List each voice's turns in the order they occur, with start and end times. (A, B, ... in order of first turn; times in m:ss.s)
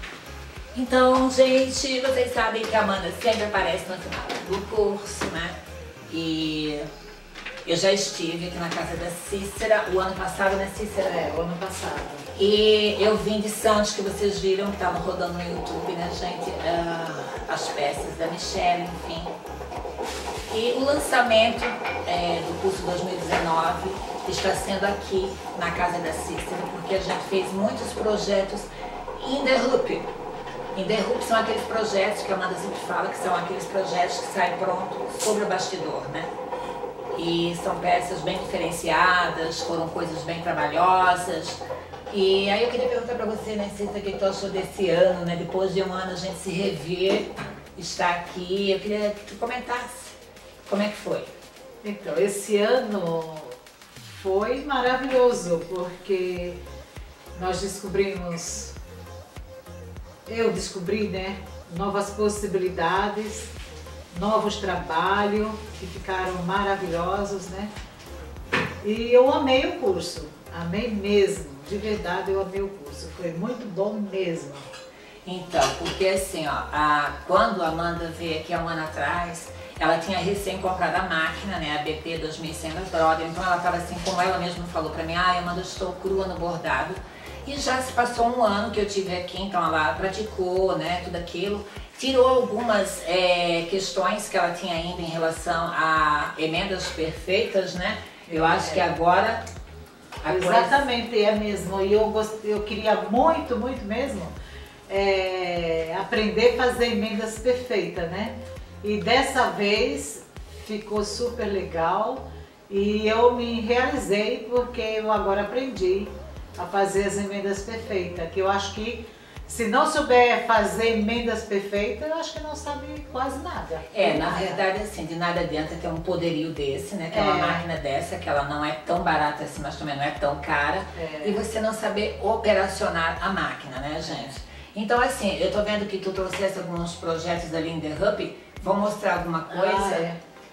0:00.7-0:05.6 A
0:06.1-0:06.8 A
0:07.6-0:11.2 A
0:11.0-0:12.3 B
0:12.3-0:19.3 A
0:20.5-0:30.1 A
0:30.7-0:36.3 A
0:37.1-0:51.3 A
0:51.8-0:56.6 B
0:57.3-0:58.7 B
1:00.3-1:03.5 B
1:04.1-1:07.7 B
1:08.8-1:14.6 B
1:15.2-1:39.4 A
1:38.3-1:38.8 B
1:40.2-1:40.8 A
1:40.3-1:44.3 B
1:44.9-2:04.6 B
2:03.9-2:20.1 A
2:07.1-2:07.6 B
2:11.0-2:11.4 B
2:19.5-2:20.2 B